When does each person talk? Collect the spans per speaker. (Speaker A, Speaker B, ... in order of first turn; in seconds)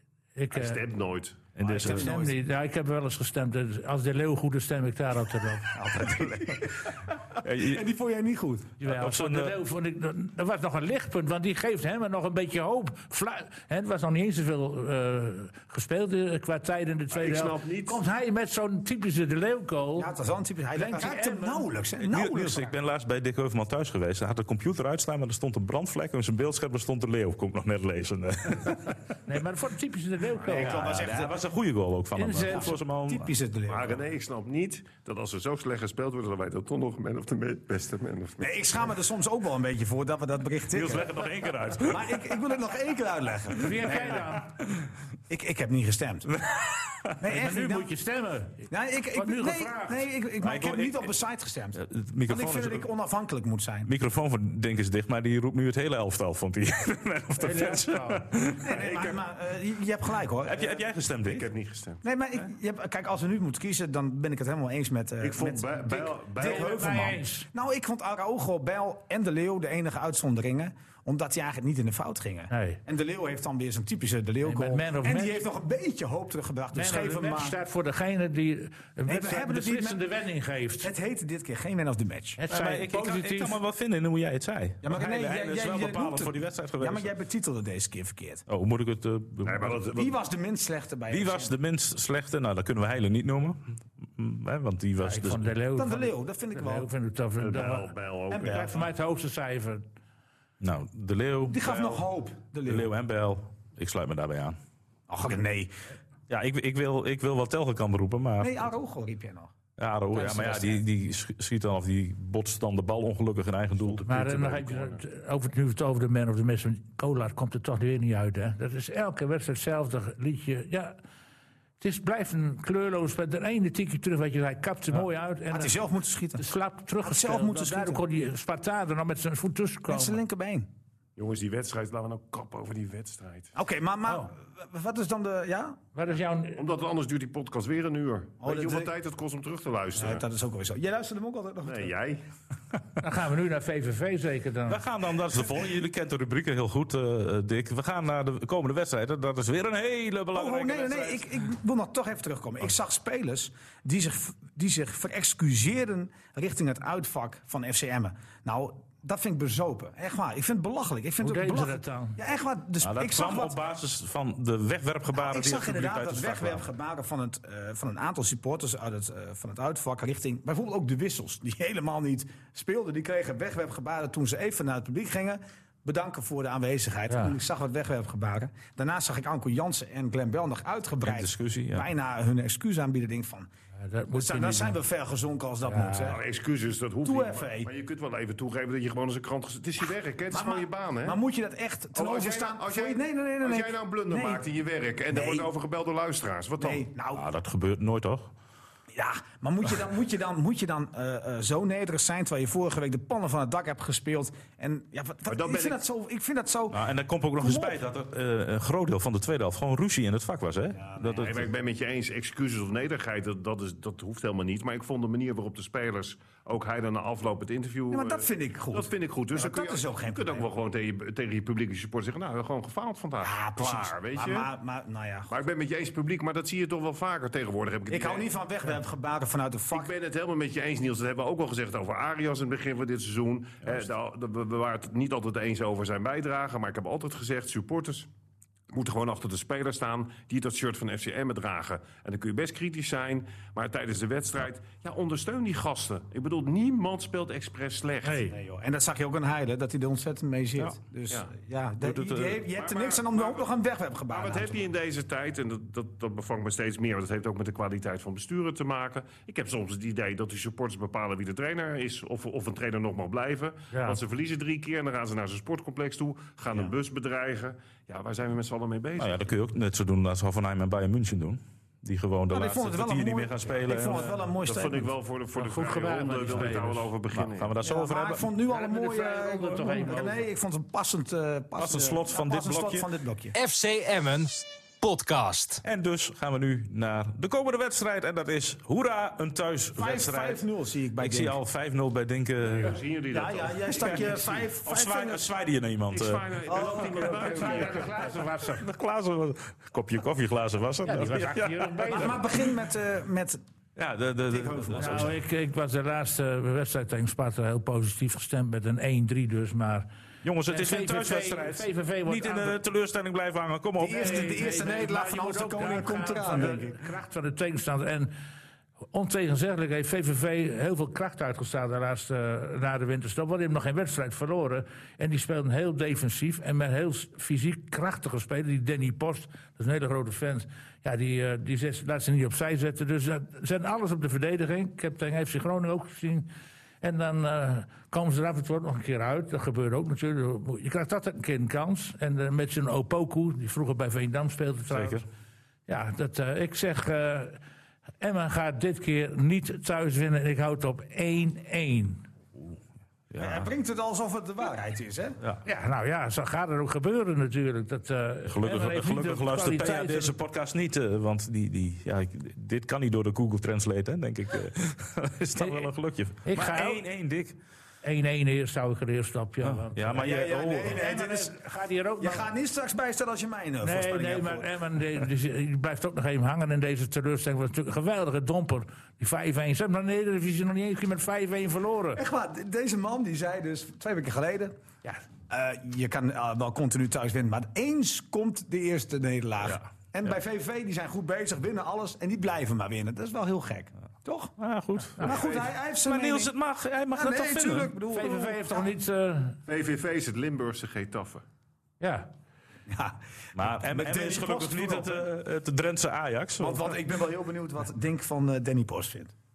Speaker A: 0.3-0.8, 1.8-5.7, 8.8-20.1, 20.7-21.7, 29.2-31.0, 32.1-32.8, 43.6-44.5, 47.2-50.1, 57.4-58.2, 66.4-67.5, 72.5-72.8, 74.4-75.4, 76.7-80.9, 82.4-83.6, 95.0-97.9, 98.4-99.8, 114.1-121.0, 121.8-125.8, 126.4-130.2, 135.9-136.6, 143.0-144.8, 161.2-162.2, 177.1-177.3, 183.8-184.8, 185.6-186.1, 248.0-248.3, 263.7-264.0, 275.3-276.9, 278.5-280.2, 296.8-298.6, 300.8-302.2, 304.8-309.9, 310.5-312.6, 313.9-318.1, 318.9-336.3, 336.8-345.1, 345.7-347.4, 348.0-352.1, 355.4-360.1, 365.4-365.7, 366.2-366.8, 367.8-372.2, 373.6-382.0, 397.9-399.4, 401.8-402.1
Speaker B: 0.5-1.4, 17.1-18.0, 33.7-38.5, 58.7-59.2, 61.2-62.0, 65.2-66.9, 89.4-90.1, 97.4-98.8, 113.8-115.0, 131.2-133.5, 136.6-140.2, 141.6-142.2, 186.1-191.2, 191.9-196.8, 205.3-205.8, 211.0-224.5, 225.3-228.3, 229.7-238.1, 238.7-248.3, 252.5-253.5, 254.1-269.3, 274.4-277.5, 292.4-294.5, 295.9-298.1, 399.5-401.2
Speaker C: 1.6-2.1, 7.4-7.8, 8.8-9.6, 22.0-29.0, 30.5-33.3, 40.7-42.4, 46.4-47.1, 50.4-51.1, 51.8-52.9, 53.9-58.7, 60.4-61.5, 82.5-87.1, 88.5-89.8, 91.1-95.5, 100.6-101.8, 102.7-104.6, 106.3-108.6, 109.8-114.1, 144.7-151.3, 162.8-166.7, 181.0-181.8, 197.1-198.3, 206.7-211.4, 251.8-252.4, 269.0-274.2, 277.1-278.2, 281.6-282.9, 285.6-290.4, 291.0-292.8, 293.8-296.2, 298.6-302.2, 303.8-305.1, 310.2-314.3, 344.7-345.0, 353.1-353.5, 358.3-367.4, 369.4-370.8, 394.4-397.7, 403.4-406.7
Speaker D: 1.6-2.4, 5.7-8.8, 20.0-22.7, 30.4-31.4, 32.5-34.0, 38.4-44.3, 45.3-46.3, 47.2-47.9, 48.7-53.9, 58.6-60.7, 62.0-77.6, 79.1-80.0, 80.8-82.4, 84.8-88.4, 89.9-91.5, 95.8-96.9, 98.3-98.8, 101.5-102.9, 105.1-105.8, 108.4-109.5, 110.1-110.8, 125.5-126.5, 127.0-128.0, 129.9-130.7, 133.5-135.8, 138.4-138.9, 139.9-141.9, 150.3-163.6, 165.1-183.5, 184.1-186.2, 187.0-187.7, 190.3-194.4, 195.1-195.5, 196.6-197.2, 198.9-207.8, 210.7-211.3, 217.9-220.5, 223.2-225.4, 227.9-229.9, 248.3-254.7, 272.3-274.9, 277.6-283.3, 289.7-291.4, 293.1-295.3, 296.5-297.8, 301.9-303.4, 304.3-305.2, 313.8-316.8, 353.2-355.2, 369.9-371.4, 372.0-374.5, 381.9-384.5, 385.3-394.3, 395.0-396.3, 396.9-398.7, 402.7-405.1, 406.4-409.1
Speaker E: 283.3-285.6